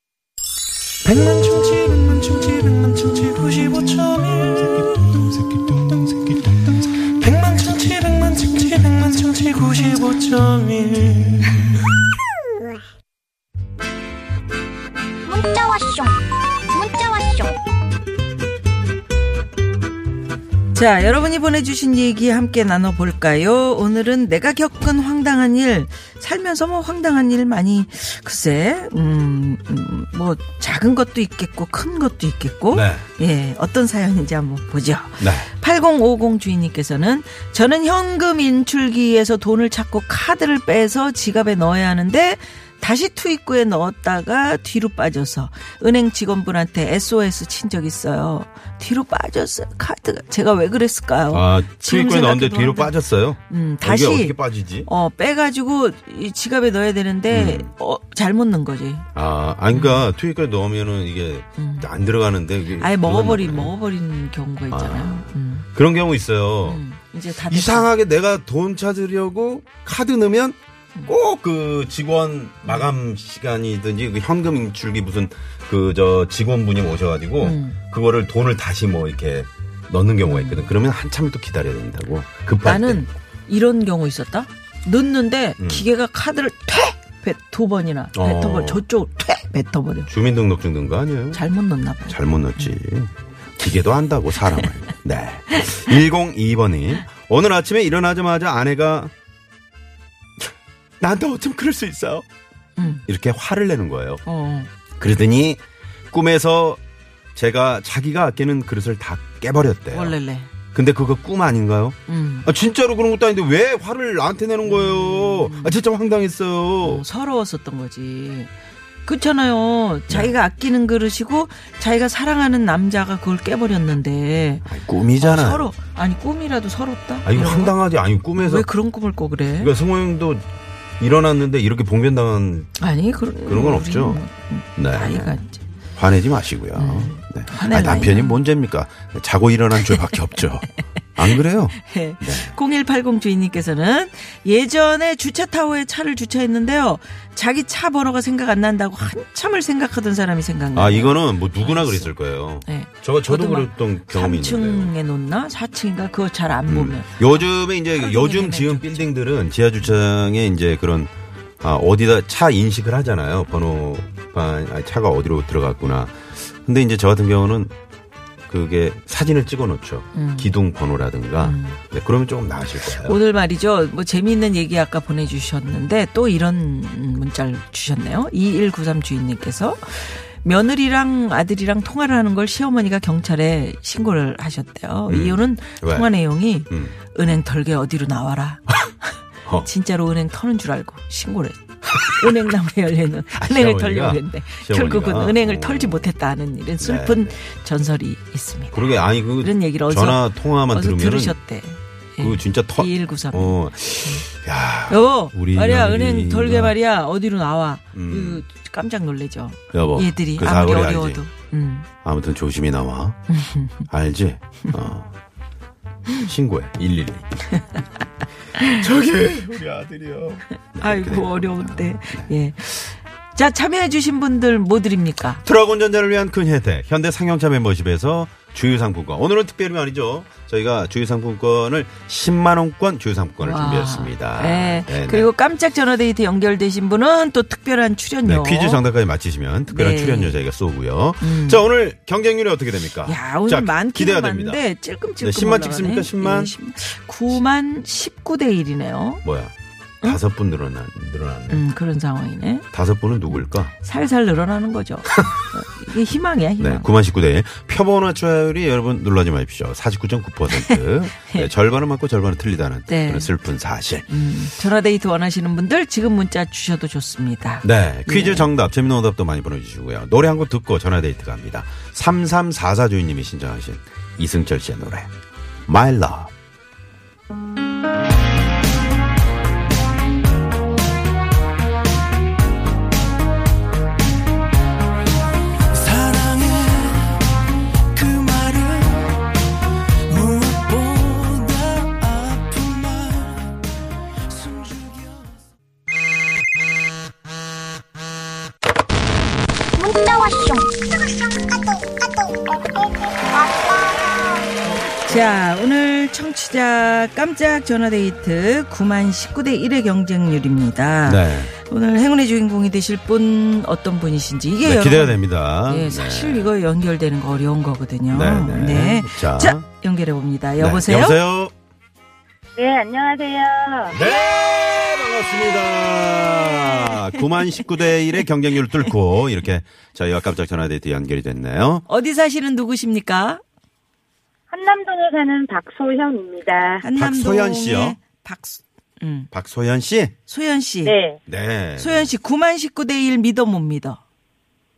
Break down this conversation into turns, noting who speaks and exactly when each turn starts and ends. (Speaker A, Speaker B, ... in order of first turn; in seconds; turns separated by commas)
Speaker A: 1.0-11.6, Speaker B: 15.2-17.6, Speaker C: 20.7-59.1, Speaker D: 32.7-33.0, Speaker D: 35.2-35.5, Speaker D: 51.3-54.9, Speaker D: 57.3-57.7, Speaker D: 59.1-63.7, Speaker C: 59.7-60.0, Speaker C: 61.6-61.9, Speaker C: 62.8-65.7, Speaker D: 64.7-66.8, Speaker C: 66.6-67.9, Speaker D: 67.5-70.5, Speaker D: 71.1-83.0, Speaker C: 77.4-77.8, Speaker C: 80.2-80.7, Speaker C: 82.6-90.1, Speaker D: 85.6-85.8, Speaker D: 88.1-88.8, Speaker D: 90.1-91.4, Speaker C: 91.3-92.7, Speaker D: 92.1-99.1, Speaker D: 101.0-102.2, Speaker C: 102.8-103.0, Speaker D: 103.1-104.2, Speaker C: 104.2-104.7, Speaker D: 105.0-106.8, Speaker D: 107.3-110.2, Speaker C: 109.9-110.5, Speaker D: 110.7-117.0, Speaker C: 112.1-112.5, Speaker C: 114.6-115.8, Speaker C: 116.8-118.5, Speaker C: 119.0-127.8, Speaker D: 120.1-120.3, Speaker D: 124.6-125.7, Speaker D: 127.2-128.7, Speaker C: 128.3-129.7, Speaker D: 129.6-130.4, Speaker D: 131.0-132.7, Speaker C: 132.8-135.6, Speaker D: 133.4-134.2, Speaker D: 134.8-135.4, Speaker D: 136.0-142.5, Speaker C: 136.7-138.4, Speaker C: 139.8-140.4, Speaker C: 141.3-159.1, Speaker D: 150.7-154.9, Speaker D: 156.7-167.7, Speaker D: 168.5-173.2, Speaker C: 170.1-170.5, Speaker C: 171.4-171.8, Speaker C: 172.8-204.2, Speaker D: 185.1-186.1, Speaker D: 186.7-186.9, Speaker D: 192.1-192.4, Speaker D: 193.3-196.1, Speaker D: 196.8-197.3, Speaker D: 198.7-201.4, Speaker D: 202.2-206.7, Speaker C: 204.9-211.9, Speaker D: 207.9-208.4, Speaker D: 209.7-211.2, Speaker D: 212.0-213.2, Speaker C: 213.3-213.9, Speaker D: 213.9-215.1, Speaker D: 216.2-217.4, Speaker D: 218.5-222.3, Speaker C: 220.7-225.4, Speaker D: 225.4-235.3, Speaker C: 233.4-238.8, Speaker D: 238.2-244.6, Speaker C: 239.7-240.4, Speaker C: 241.2-241.6, Speaker C: 243.0-249.2, Speaker D: 245.2-246.5, Speaker D: 249.2-251.6, Speaker C: 251.5-252.7, Speaker D: 252.7-253.7, Speaker C: 253.3-256.9, Speaker D: 256.6-264.1, Speaker C: 260.5-261.5, Speaker C: 262.9-263.3, Speaker C: 264.1-268.5, Speaker D: 267.6-275.1, Speaker D: 275.7-276.3, Speaker A: 285.7-287.2, Speaker A: 287.9-289.2, Speaker A: 290.1-293.5, Speaker A: 294.3-295.3, Speaker B: 299.7-304.5, Speaker C: 304.8-321.2, Speaker D: 311.0-311.5, Speaker D: 314.6-316.5, Speaker D: 318.1-319.6, Speaker D: 320.6-321.5, Speaker E: 322.6-324.0, Speaker D: 323.9-331.8, Speaker C: 326.5-327.2, Speaker C: 331.9-333.4, Speaker E: 334.5-336.9, Speaker C: 336.8-339.3, Speaker D: 336.9-338.0, Speaker D: 339.3-340.1, Speaker C: 340.3-341.0, Speaker E: 340.8-341.2, Speaker D: 341.3-342.1, Speaker C: 341.8-344.0